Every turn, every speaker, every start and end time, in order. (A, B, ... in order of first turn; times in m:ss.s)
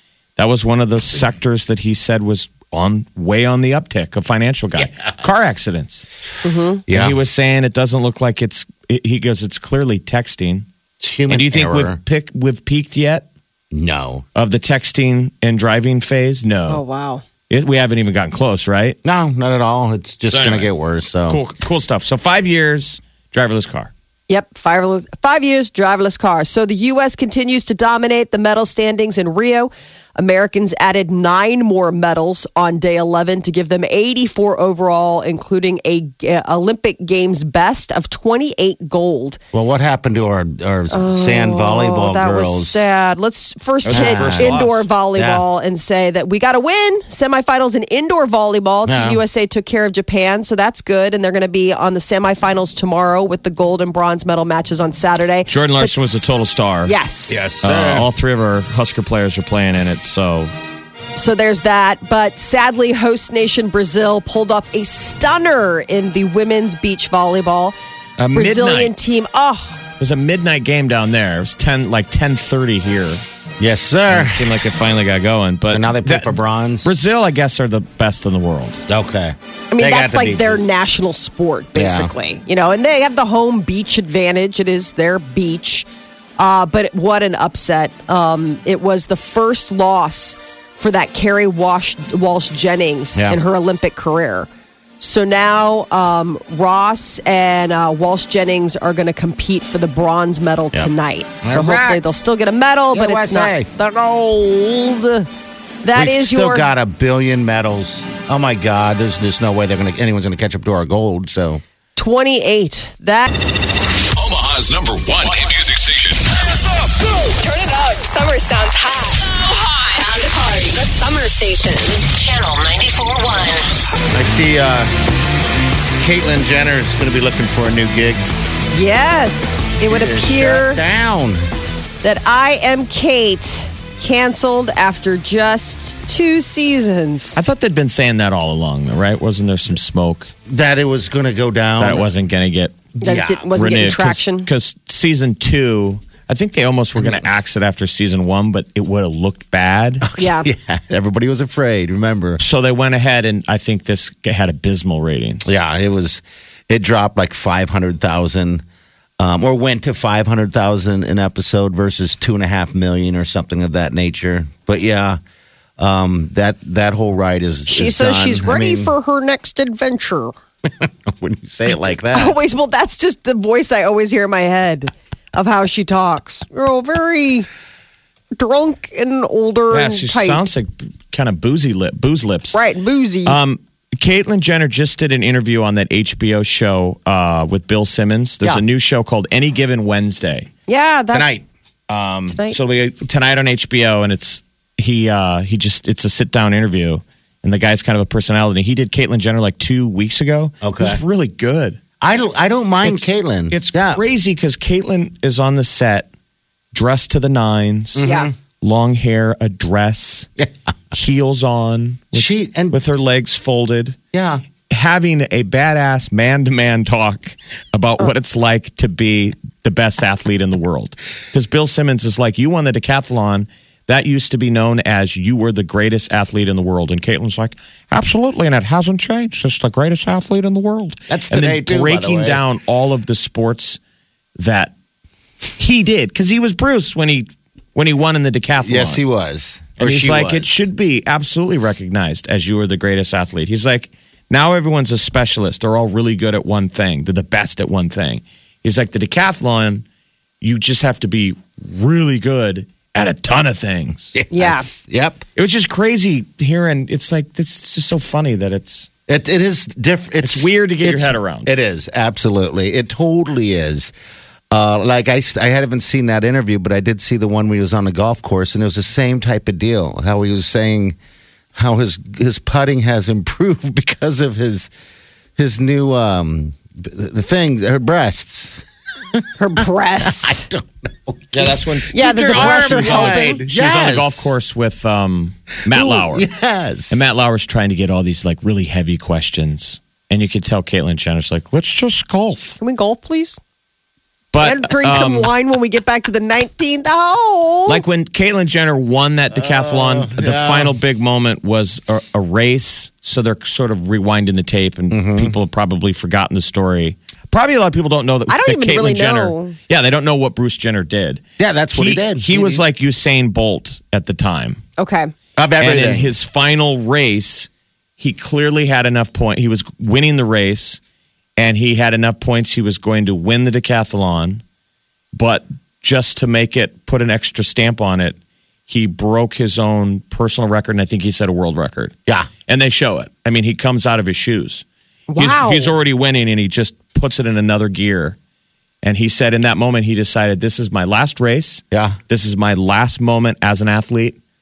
0:00.4-0:06.1 A
0:06.4-0:06.8 B
0:06.9-0:07.2 C
0:06.9-0:10.7 A
0:11.0-0:12.0 C
0:11.3-0:13.3 A
0:13.7-0:14.2 C
0:14.4-0:16.8 A
0:16.7-0:17.2 B
0:17.5-0:19.0 A
0:19.0-0:21.4 C
0:20.3-0:20.7 A
0:21.3-0:23.9 A
0:24.3-0:39.4 B
0:39.5-0:42.8 C
0:40.9-0:57.4 B
0:43.8-0:44.9 A
0:43.9-0:44.6 C
0:45.2-0:45.4 C
0:48.9-0:49.2 C
0:55.5-0:56.9 A
0:57.3-0:58.1 C
0:57.6-1:00.5 A
1:01.2-1:07.8 B
1:08.2-1:08.9 A
1:08.3-1:09.8 B
1:10.0-1:13.2 A
1:13.6-1:14.6 C
1:14.1-1:18.8 A
1:15.7-1:16.9 C
1:18.9-1:20.6 C
1:19.7-1:25.9 B
1:21.8-1:22.1 C
1:26.4-1:34.5 B
1:33.2-1:33.4 C
1:35.0-1:45.3 B
1:41.4-1:42.0 C
1:42.9-1:43.7 C
1:45.8-1:46.7 B
1:45.9-1:51.6 C
1:52.0-1:53.4 B
1:54.2-1:56.4 D
1:56.5-1:59.4 B
1:59.3-2:00.5 E
2:00.2-2:02.0 B
2:02.0-2:03.7 E
2:04.1-2:04.9 C
2:06.0-2:08.2 C
2:08.7-2:10.8 B
2:09.9-2:11.4 C
2:12.0-2:17.4 B
2:17.4-2:20.3 A
2:20.5-2:22.1 C
2:21.8-2:23.0 A
2:23.0-2:24.5 B
2:23.0-2:23.4 C
2:23.6-2:30.1 A
2:27.0-2:27.2 C
2:30.0-2:32.4 C
2:30.2-2:30.5 B
2:32.4-2:35.5 A
2:35.4-2:38.6 C
2:39.2-2:45.2 C
2:45.8-2:48.9 C
2:47.7-2:50.3 B
2:50.6-2:52.4 C
2:51.7-2:57.5 B
2:58.4-3:00.5 B
2:59.7-3:02.6 A
3:02.5-3:03.4 B
3:03.3-3:10.5 A
3:10.7-3:11.3 B
3:11.1-3:11.4 C
3:11.9-3:21.8 A
3:20.6-3:21.0 C
3:22.0-3:24.0 C
3:22.8-3:26.1 A
3:26.7-3:28.1 A
3:28.0-3:28.3 C
3:28.0-3:28.3 B
3:28.6-3:30.3 A
3:30.9-3:34.0 A
3:32.1-3:32.8 C
3:34.1-3:34.4 C
3:34.7-3:53.8 A
3:51.1-3:52.4 C
3:54.4-3:54.7 A
3:55.6-3:59.0 A
3:58.6-4:00.5 C
3:59.8-4:09.8 A
4:10.4-4:14.2 A
4:14.1-4:15.2 C
4:14.3-4:14.7 B
4:15.4-4:18.9 A
4:19.1-4:23.9 C
4:20.2-4:21.5 A
4:24.5-4:31.0 C
4:31.6-4:34.7 C
4:35.4-4:39.2 C
4:39.4-4:40.5 B
4:40.0-4:44.4 C
4:41.3-4:46.3 A
4:41.9-4:43.4 B
4:45.7-4:47.0 C
4:46.9-4:52.6 A
4:52.6-4:53.4 B
4:54.3-4:55.3 A
4:54.4-4:57.8 B
4:57.7-5:14.6 A
4:59.3-5:00.8 C
5:04.9-5:05.4 C
5:08.3-5:09.6 B
5:11.4-5:12.6 C
5:14.8-5:15.1 B
5:15.4-5:16.1 C
5:15.6-5:20.8 A
5:21.4-5:24.4 A
5:25.1-5:28.2 A
5:28.7-5:31.9 A
5:32.5-5:34.6 A
5:35.1-5:35.8 B
5:35.2-5:38.2 A
5:38.8-5:44.2 A
5:41.7-5:42.0 C